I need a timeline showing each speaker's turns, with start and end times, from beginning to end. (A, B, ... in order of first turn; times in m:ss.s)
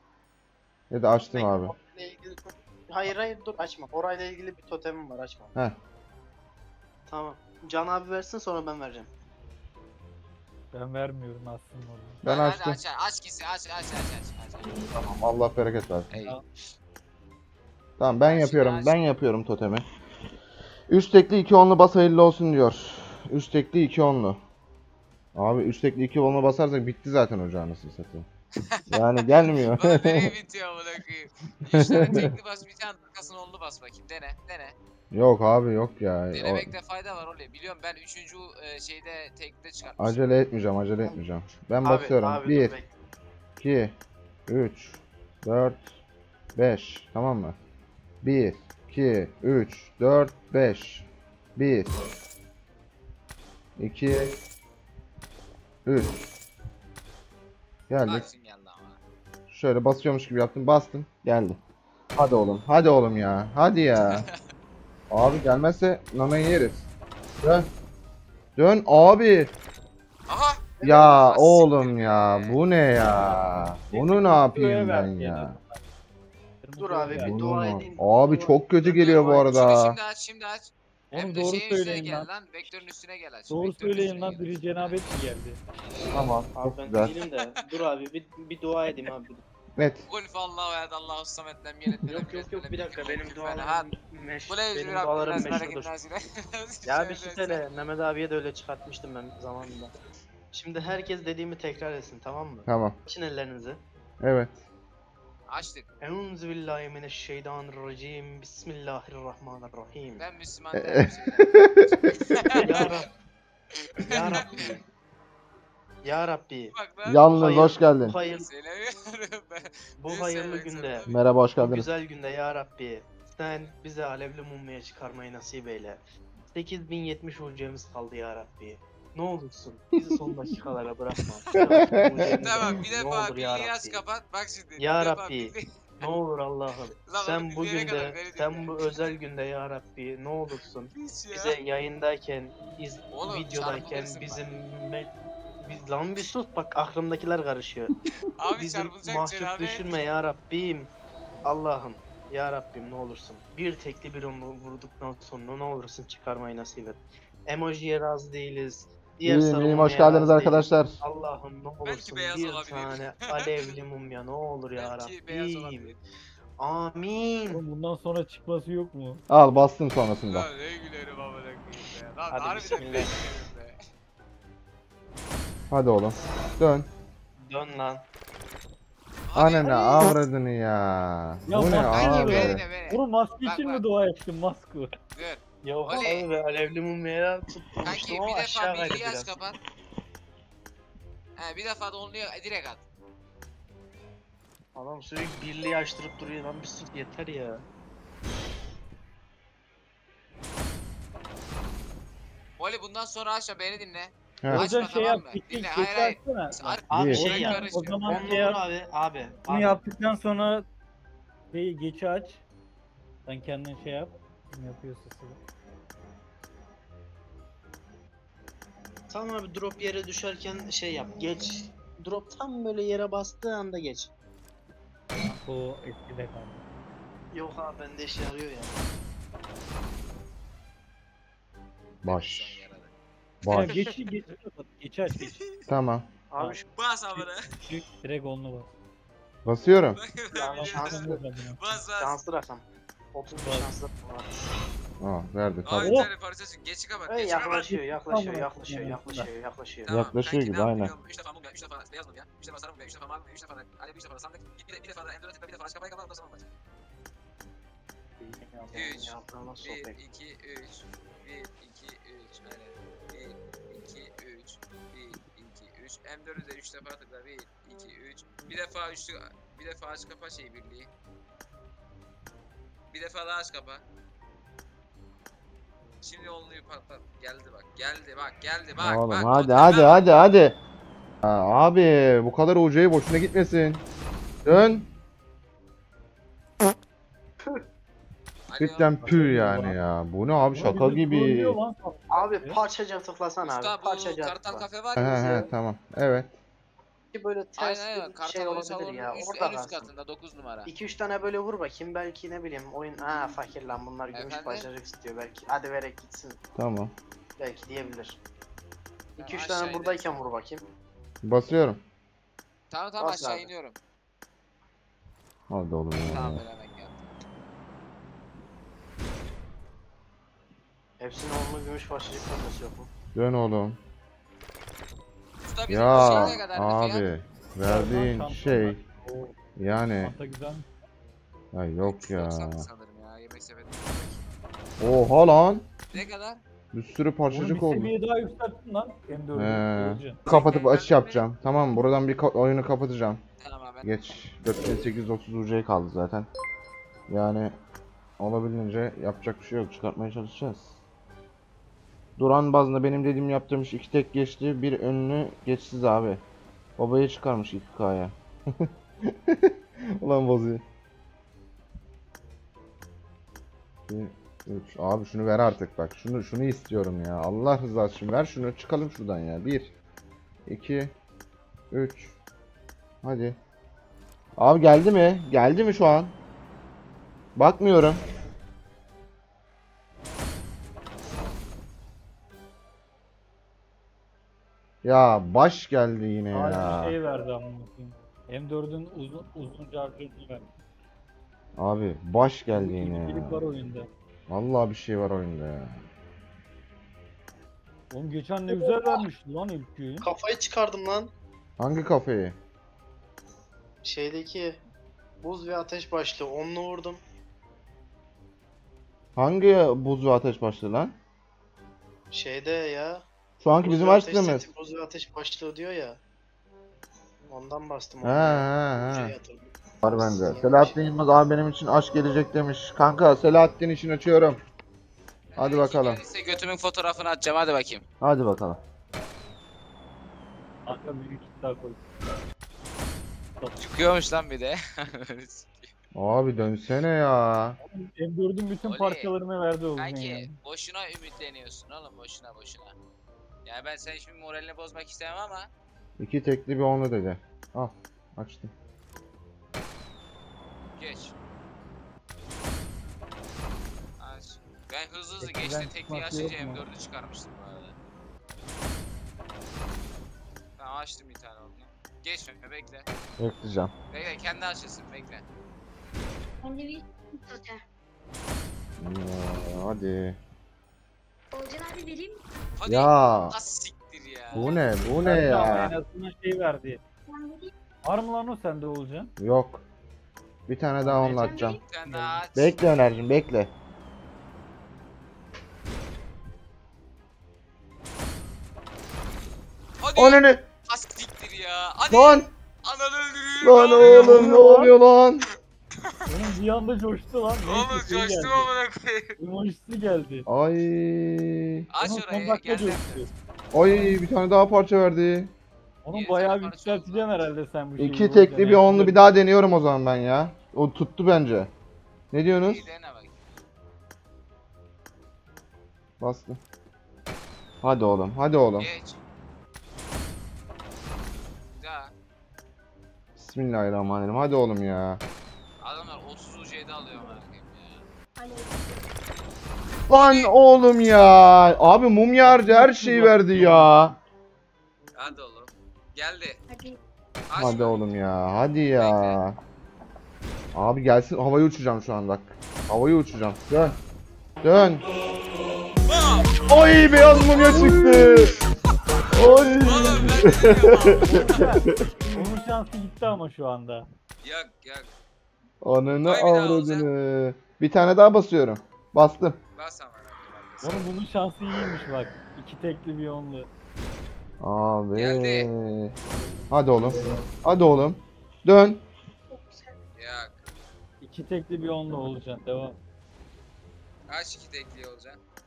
0:00.9-0:01.7 A
0:01.3-0:05.5 B
0:07.1-0:09.1 B
0:10.7-0:12.2 C
0:12.2-0:12.8 A
0:12.2-0:14.8 D
0:14.6-0:16.1 A
0:16.1-0:16.4 D
0:18.0-0:19.8 A
0:18.2-0:19.0 D
0:20.9-0:24.4 A
0:25.4-0:28.3 A
0:28.6-0:34.8 D
0:28.9-0:30.3 A
0:31.7-0:32.3 A
0:35.1-0:36.7 A
0:36.3-0:40.2 D
0:40.0-0:42.8 A
0:41.8-0:42.9 B
0:43.6-0:43.9 A
0:44.5-0:46.0 A
0:46.6-0:47.6 A
0:48.2-0:51.9 A
0:53.8-0:54.4 A
0:55.8-0:56.2 A
0:57.9-0:58.3 A
0:58.0-0:59.0 D
0:59.5-1:01.6 A
1:02.2-1:04.2 A
1:04.1-1:04.4 D
1:05.1-1:06.8 A
1:07.4-1:07.7 A
1:08.6-1:09.6 A
1:10.3-1:12.6 D
1:10.8-1:11.2 B
1:10.8-1:15.6 A
1:13.0-1:15.8 C
1:16.6-1:17.7 C
1:16.8-1:19.5 B
1:17.1-1:20.0 A
1:18.8-1:25.2 D
1:21.1-1:22.3 C
1:23.5-1:25.6 C
1:26.1-1:27.1 A
1:26.6-1:29.4 B
1:29.8-1:30.1 A
1:30.1-1:33.9 D
1:32.0-1:35.9 B
1:34.5-1:37.8 D
1:36.9-1:39.9 B
1:40.5-1:43.8 B
1:42.7-1:43.0 A
1:44.2-1:44.6 A
1:45.5-1:45.9 D
1:46.0-1:50.2 B
1:50.2-1:53.0 D
1:50.8-1:52.4 A
1:52.6-1:53.1 B
1:53.7-1:54.8 D
1:54.0-1:54.8 B
1:56.0-1:56.8 B
1:56.7-1:57.6 D
1:57.0-1:58.2 A
1:57.4-1:58.5 B
1:58.2-2:01.2 D
2:00.0-2:01.1 B
2:01.1-2:01.9 A
2:01.6-2:06.0 B
2:06.5-2:14.0 B
2:10.0-2:10.3 A
2:11.8-2:12.3 A
2:12.4-2:16.1 D
2:14.8-2:27.9 B
2:17.1-2:19.2 D
2:21.0-2:21.6 D
2:23.1-2:24.5 D
2:28.4-2:30.1 D
2:28.5-2:30.9 B
2:31.4-2:46.0 B
2:39.2-2:41.0 A
2:41.8-2:43.7 D
2:44.8-2:46.0 D
2:46.6-2:47.6 B
2:47.5-2:49.2 C
2:49.3-2:50.5 A
2:50.3-2:53.8 D
2:52.3-2:53.1 B
2:55.7-2:56.9 A
2:57.4-2:58.0 B
2:59.3-3:00.1 D
2:59.4-3:02.6 A
3:01.5-3:04.9 C
3:01.6-3:03.8 D
3:05.2-3:06.3 D
3:05.6-3:09.4 B
3:07.8-3:09.6 D
3:11.4-3:12.8 D
3:14.8-3:17.6 B
3:22.6-3:28.3 D
3:24.4-3:24.7 A
3:24.5-3:28.6 C
3:26.9-3:27.2 A
3:26.9-3:29.8 B
3:29.5-3:30.6 C
3:31.5-3:32.4 C
3:33.3-3:35.4 C
3:39.1-3:44.1 B
3:45.2-3:46.6 C
3:47.3-3:48.8 B
3:52.0-3:52.7 A
3:52.0-3:52.9 D
3:53.4-3:53.8 A
3:53.5-3:55.4 C
3:53.5-3:54.1 D
3:55.1-3:55.6 D
3:55.7-3:56.1 A
3:56.3-3:56.6 B
3:56.7-3:57.5 D
3:57.2-3:58.7 C
3:59.4-4:00.0 A
4:00.0-4:02.2 D
4:00.3-4:01.2 B
4:00.5-4:01.6 C
4:02.0-4:04.3 B
4:03.4-4:03.7 C
4:05.0-4:05.9 A
4:05.6-4:07.7 D
4:05.8-4:06.1 C
4:07.1-4:09.9 B
4:07.5-4:09.3 C
4:09.9-4:16.5 D
4:09.9-4:10.9 A
4:18.2-4:19.0 C
4:18.7-4:30.9 D
4:18.8-4:20.0 B
4:32.9-4:33.8 D
4:36.0-4:40.3 D
4:38.8-4:40.6 A
4:41.2-4:43.8 A
4:44.4-4:44.9 A
4:48.5-4:49.1 D
4:48.6-4:51.6 A
4:49.0-4:49.8 C
4:50.5-4:52.6 C
4:52.1-4:55.5 B
4:53.4-4:55.4 D
4:55.0-4:56.4 A
4:57.1-4:59.9 B
4:57.6-5:00.7 D
5:00.7-5:06.4 B
5:04.1-5:04.7 D
5:06.6-5:06.9 A
5:07.4-5:08.2 B
5:09.2-5:10.2 D
5:09.2-5:10.7 B
5:11.2-5:11.8 A
5:12.7-5:13.8 D
5:13.0-5:13.5 B
5:15.5-5:16.4 A
5:16.0-5:17.1 D
5:21.0-5:22.9 B
5:23.1-5:23.8 A
5:25.4-5:27.1 D
5:25.7-5:28.8 A
5:27.5-5:29.4 C
5:29.6-5:30.2 A
5:30.0-5:30.7 C
5:31.5-5:32.7 A
5:31.8-5:34.3 D
5:34.8-5:35.7 A
5:35.9-5:36.4 D
5:36.7-5:37.9 A
5:37.3-5:40.2 C
5:39.4-5:43.2 A
5:40.3-5:41.2 D
5:43.4-5:43.9 D
5:43.8-5:46.3 A
5:47.1-5:47.6 A
5:48.2-5:50.8 A
5:52.2-5:56.2 A
5:56.8-6:00.6 A
6:03.9-6:09.7 A
6:10.5-6:10.9 A
6:11.7-6:12.2 A
6:13.0-6:13.4 A
6:14.4-6:16.2 A
6:17.4-6:18.0 A
6:24.8-6:27.0 A
6:26.3-6:30.5 C
6:31.6-6:33.4 A
6:32.5-6:33.9 C
6:34.3-6:35.8 A
6:37.9-6:40.1 C
6:38.5-6:39.0 B
6:40.0-6:41.1 B
6:41.6-6:42.4 A
6:43.8-6:44.6 B
6:45.2-6:47.0 B
6:49.2-6:51.0 A
6:52.1-6:53.1 B
6:53.4-6:54.5 A
6:53.6-6:56.0 B
6:57.3-7:00.8 B
6:58.0-6:59.1 A
6:59.8-7:04.4 A
7:05.3-7:07.8 D
7:05.4-7:06.0 A
7:08.0-7:08.6 A
7:10.7-7:11.8 C
7:13.6-7:15.7 D
7:15.9-7:17.6 A
7:17.7-7:20.4 C
7:18.6-7:19.1 D
7:19.8-7:22.8 D
7:23.4-7:25.5 D
7:26.0-7:28.5 A
7:30.8-7:31.2 D
7:34.0-7:37.8 D
7:35.2-7:36.6 C
7:40.6-7:42.9 D
7:43.2-7:43.7 A
7:43.9-7:45.2 D
7:46.4-7:47.6 E
7:48.8-7:50.2 A
7:51.4-7:52.2 E
7:52.6-7:54.6 D
7:52.7-7:53.4 A
7:54.3-7:55.8 A
7:54.4-7:56.8 C
7:57.1-7:57.5 E
7:57.8-7:59.1 C
7:59.2-7:59.6 A
8:00.5-8:01.6 A
8:00.8-8:02.2 C
8:01.3-8:01.6 E
8:01.5-8:02.6 D
8:02.3-8:03.5 A
8:09.8-8:14.4 D
8:10.0-8:10.4 A
8:11.9-8:12.3 A
8:13.4-8:15.3 A
8:13.8-8:14.7 C
8:16.1-8:18.5 C
8:17.4-8:19.2 D
8:19.2-8:20.3 C
8:20.3-8:21.7 A
8:21.7-8:23.1 D
8:21.8-8:23.9 C
8:23.5-8:25.3 A
8:25.8-8:29.0 C
8:25.9-8:27.3 D
8:27.8-8:31.5 A
8:32.1-8:32.7 A
8:32.4-8:33.4 D
8:36.0-8:36.4 A
8:37.6-8:38.7 A
8:38.6-8:39.0 D
8:41.5-8:41.9 D
8:43.2-8:45.0 A
8:45.6-8:47.8 D
8:48.2-8:48.8 E
8:49.9-8:54.0 A
8:49.9-8:50.3 D
8:52.2-8:53.7 C
8:55.0-8:56.4 D
8:56.5-8:56.8 E
8:57.3-8:57.9 D
8:57.4-8:59.4 A
8:58.8-8:59.2 D
9:00.5-9:03.8 A
9:04.4-9:04.8 A
9:05.9-9:08.5 D
9:06.5-9:08.4 A
9:07.6-9:08.2 C
9:09.1-9:11.8 A
9:09.5-9:11.4 D
9:11.0-9:13.8 C
9:14.2-9:14.9 D
9:15.6-9:19.4 A
9:16.0-9:16.9 D
9:19.6-9:20.9 D
9:20.6-9:23.5 C
9:24.4-9:25.9 A
9:25.0-9:25.5 D
9:26.5-9:28.8 A
9:29.4-9:29.7 E
9:30.0-9:30.4 D
9:31.0-9:32.8 C
9:34.1-9:35.2 D